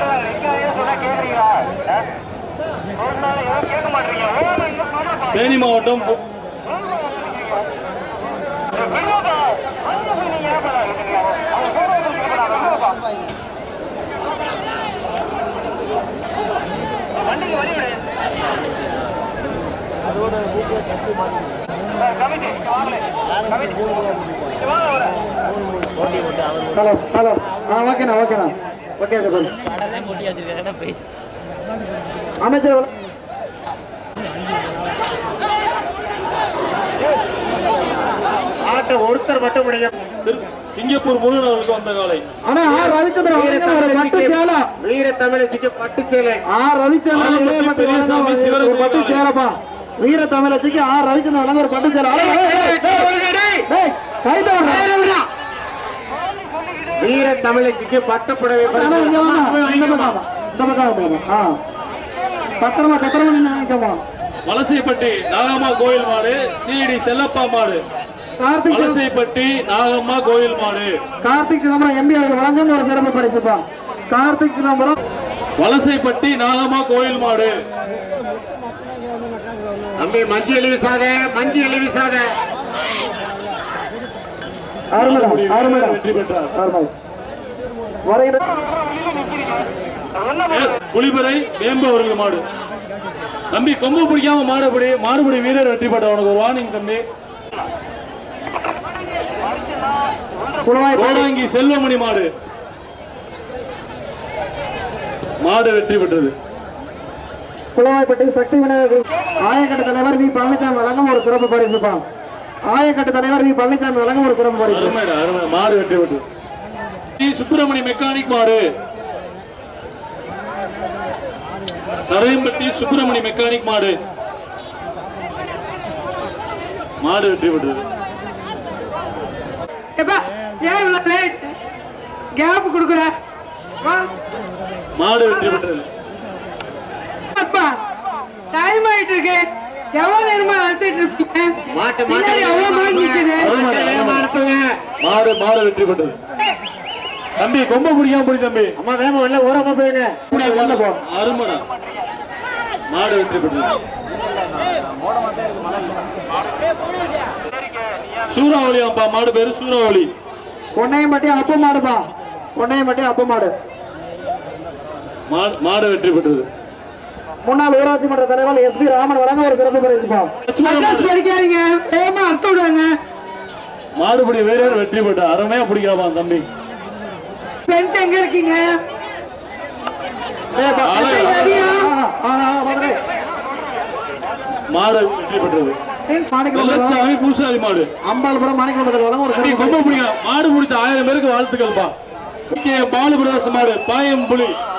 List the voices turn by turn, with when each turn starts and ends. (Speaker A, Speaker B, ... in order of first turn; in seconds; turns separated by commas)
Speaker A: 5.3-6.2, Speaker B: 26.7-29.5, Speaker B: 32.4-32.9, Speaker C: 38.6-39.9, Speaker A: 40.2-42.2, Speaker B: 42.5-44.7, Speaker C: 42.7-46.4, Speaker B: 46.5-53.1, Speaker A: 47.1-49.2, Speaker C: 52.1-53.6, Speaker B: 53.7-54.9, Speaker C: 54.6-55.3, Speaker C: 57.0-60.2, Speaker B: 58.7-61.6, Speaker B: 62.6-64.0, Speaker A: 64.5-67.8, Speaker B: 68.4-69.0, Speaker A: 68.7-71.0, Speaker B: 71.2-75.0, Speaker A: 75.6-77.5, Speaker C: 80.0-82.3, Speaker B: 84.9-86.0, Speaker A: 85.0-86.5, Speaker B: 86.5-86.9, Speaker B: 88.1-88.4, Speaker A: 90.5-92.4, Speaker A: 93.5-97.0, Speaker B: 100.6-101.3, Speaker A: 100.9-102.3, Speaker A: 105.4-106.3, Speaker B: 107.8-112.0, Speaker B: 112.7-115.0, Speaker A: 114.7-116.2, Speaker A: 117.2-118.6, Speaker A: 122.1-124.0, Speaker A: 127.0-127.8, Speaker D: 130.0-131.6, Speaker D: 132.4-133.1, Speaker D: 133.8-134.1, Speaker A: 135.0-135.9, Speaker D: 137.3-137.8, Speaker D: 138.5-141.6, Speaker C: 141.7-144.8, Speaker D: 142.1-143.5, Speaker A: 143.4-144.3, Speaker A: 145.0-146.2, Speaker A: 147.4-148.8, Speaker C: 148.8-150.2, Speaker B: 150.3-151.0, Speaker A: 150.3-151.7, Speaker A: 152.9-153.7, Speaker A: 158.3-160.1, Speaker B: 160.8-163.5, Speaker A: 165.3-166.5, Speaker B: 167.4-170.3, Speaker A: 170.5-171.1, Speaker D: 170.6-172.9, Speaker A: 174.0-176.4, Speaker D: 177.7-178.8, Speaker B: 180.5-183.0, Speaker A: 180.8-181.5, Speaker D: 181.0-181.9, Speaker A: 184.7-185.8, Speaker B: 186.3-187.1, Speaker A: 186.5-187.9, Speaker B: 188.1-190.0, Speaker A: 189.3-191.9, Speaker A: 192.5-194.6